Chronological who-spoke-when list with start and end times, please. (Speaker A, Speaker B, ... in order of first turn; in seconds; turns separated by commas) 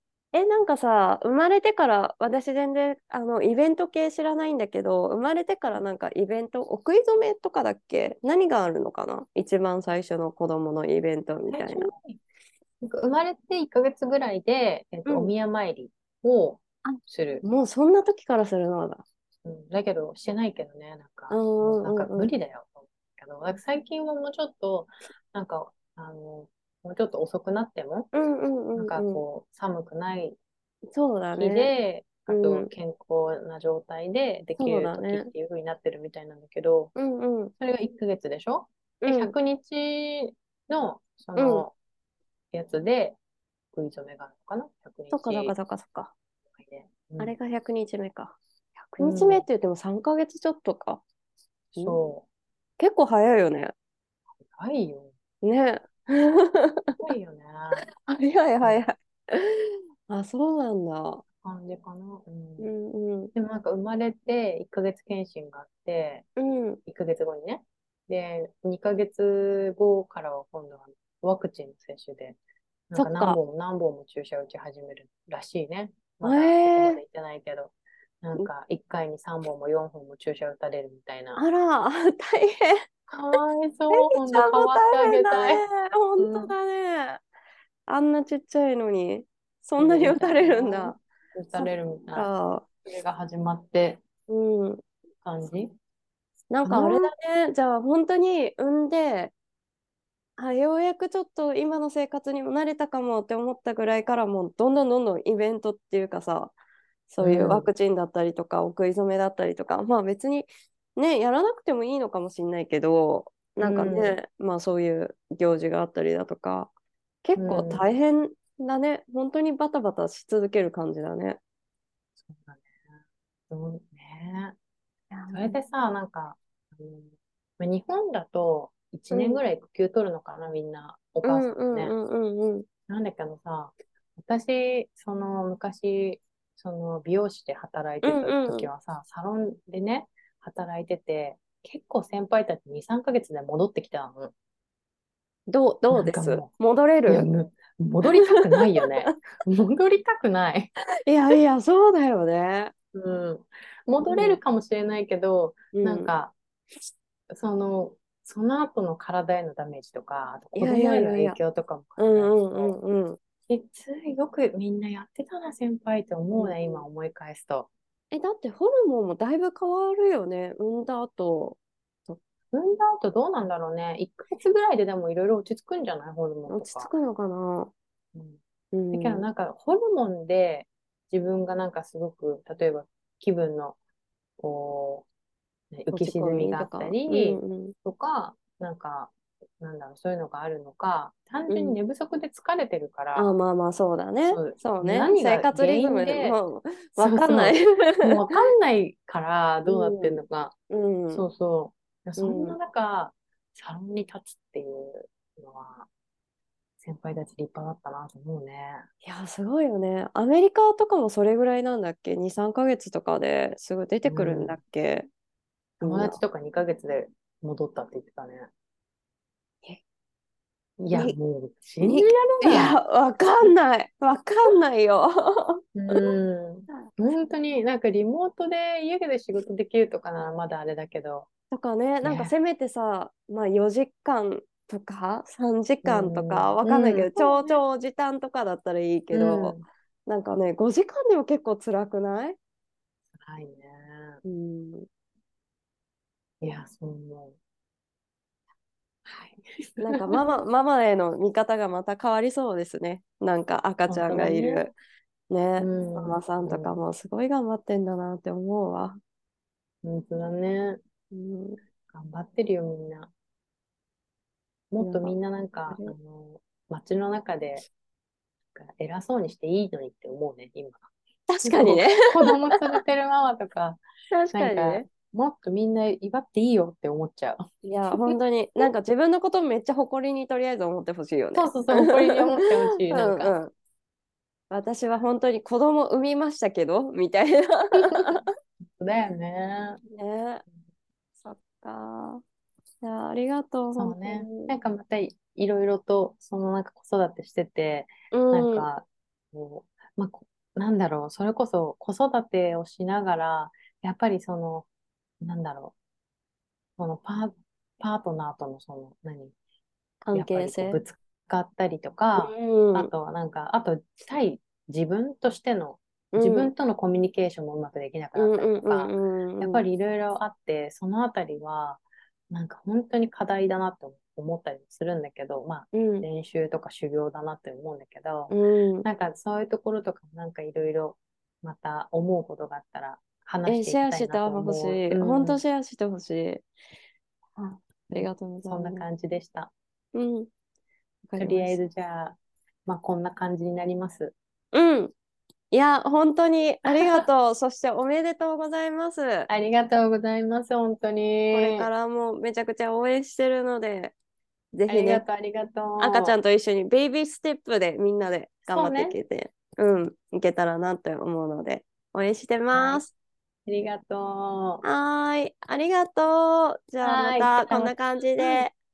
Speaker A: 0.3-11.9, Speaker B: 11.5-12.2, Speaker B: 12.8-17.4, Speaker A: 15.1-15.3, Speaker A: 16.8-19.0, Speaker B: 19.4-28.1, Speaker A: 21.3-22.3, Speaker A: 28.1-29.2, Speaker B: 28.7-30.4, Speaker A: 30.9-31.7, Speaker B: 31.4-36.9, Speaker A: 32.3-32.7, Speaker A: 34.6-35.3, Speaker A: 37.0-37.5, Speaker B: 37.6-41.7, Speaker A: 39.0-39.3, Speaker A: 41.4-41.6, Speaker B: 42.5-43.2, Speaker B: 43.7-45.5, Speaker A: 45.1-46.1, Speaker B: 46.6-47.4, Speaker A: 47.2-51.0, Speaker B: 49.0-49.5, Speaker B: 51.8-52.2, Speaker A: 52.8-53.7, Speaker B: 54.4-55.1, Speaker A: 55.4-57.0, Speaker B: 57.0-57.9, Speaker A: 58.0-61.2, Speaker B: 58.6-58.9, Speaker B: 61.4-62.7, Speaker A: 62.6-63.3, Speaker B: 63.3-66.3, Speaker A: 66.4-66.8, Speaker B: 66.8-72.4, Speaker B: 72.9-81.4, Speaker A: 73.0-73.4, Speaker A: 76.2-77.0, Speaker A: 81.4-82.8, Speaker B: 83.1-85.6, Speaker A: 83.9-87.2, Speaker B: 86.2-86.5, Speaker A: 87.9-91.0, Speaker B: 89.8-92.3, Speaker A: 91.5-92.7, Speaker B: 92.8-94.0, Speaker A: 94.3-94.8, Speaker B: 95.2-95.7, Speaker A: 96.5-99.3, Speaker B: 96.6-97.1, Speaker A: 100.4-106.5, Speaker A: 107.1-116.7, Speaker B: 107.2-107.7, Speaker B: 113.6-114.2, Speaker A: 117.2-121.4, Speaker B: 117.4-117.9, Speaker B: 122.2-122.7, Speaker B: 123.5-124.5, Speaker A: 125.1-125.6, Speaker B: 125.3-131.9, Speaker A: 129.1-129.4, Speaker A: 131.2-132.7, Speaker B: 132.9-144.3, Speaker A: 138.0-138.7, Speaker A: 145.5-147.2, Speaker B: 145.9-146.5, Speaker B: 147.1-150.7, Speaker A: 148.2-149.1, Speaker A: 151.0-152.7, Speaker B: 152.9-156.3, Speaker A: 154.0-154.4, Speaker A: 155.7-156.1, Speaker B: 157.3-162.8, Speaker A: 160.5-161.4, Speaker A: 162.0-163.2, Speaker B: 163.5-167.7, Speaker A: 166.3-166.8, Speaker A: 168.1-172.2, Speaker B: 172.5-176.9, Speaker A: 176.5-177.7, Speaker A: 178.7-179.2, Speaker B: 178.9-183.8, Speaker B: 184.4-185.1, Speaker B: 185.7-193.3, Speaker A: 185.9-187.7, Speaker A: 191.5-191.8, Speaker A: 193.1-198.3, Speaker B: 194.2-196.4, Speaker B: 197.0-200.5, Speaker A: 199.7-201.2, Speaker B: 201.1-205.9, Speaker A: 202.2-202.6, Speaker B: 206.8-208.8, Speaker A: 209.0-215.1, Speaker B: 214.0-214.6, Speaker A: 215.8-216.2, Speaker B: 215.8-218.5, Speaker B: 220.8-222.8, Speaker A: 221.8-226.1, Speaker B: 225.8-231.3, Speaker A: 231.5-242.4, Speaker B: 232.0-232.3, Speaker B: 235.8-237.6, Speaker B: 239.1-239.6, Speaker B: 243.2-244.2, Speaker A: 244.2-244.9, Speaker B: 246.4-247.3, Speaker B: 249.1-250.2, Speaker A: 249.8-254.7, Speaker B: 253.9-254.7, Speaker A: 255.3-259.0, Speaker B: 255.6-256.7, Speaker B: 259.8-260.8, Speaker A: 261.1-261.6, Speaker B: 261.9-263.1, Speaker B: 264.7-267.6, Speaker A: 264.8-265.2, Speaker A: 265.7-265.9, Speaker B: 268.5-270.9, Speaker A: 271.3-272.6, Speaker B: 271.4-278.7, Speaker A: 274.1-274.9, Speaker A: 277.6-283.5, Speaker B: 281.3-283.3, Speaker A: 284.5-288.2, Speaker B: 287.8-289.8, Speaker A: 289.9-290.4, Speaker A: 291.2-292.2, Speaker A: 292.8-294.5, Speaker B: 293.7-304.7, Speaker A: 298.1-298.7, Speaker B: 305.2-305.7, Speaker B: 306.8-309.3, Speaker A: 310.0-310.8, Speaker B: 310.1-335.4, Speaker A: 312.2-312.9, Speaker A: 316.1-316.5, Speaker A: 318.1-319.6, Speaker A: 325.7-326.1, Speaker A: 328.3-328.9, Speaker A: 333.4-336.5, Speaker A: 337.3-338.8, Speaker B: 337.9-339.5, Speaker A: 339.9-340.3, Speaker A: 341.0-341.6, Speaker B: 341.2-344.1, Speaker A: 344.5-344.9, Speaker A: 345.5-349.3, Speaker B: 346.6-347.1, Speaker B: 349.3-351.7, Speaker A: 351.3-353.9, Speaker A: 354.5-355.0, Speaker B: 354.7-356.2, Speaker A: 355.8-362.9, Speaker B: 358.5-359.0, Speaker B: 362.5-362.8, Speaker B: 363.5-364.6, Speaker A: 364.6-368.5, Speaker B: 366.8-368.4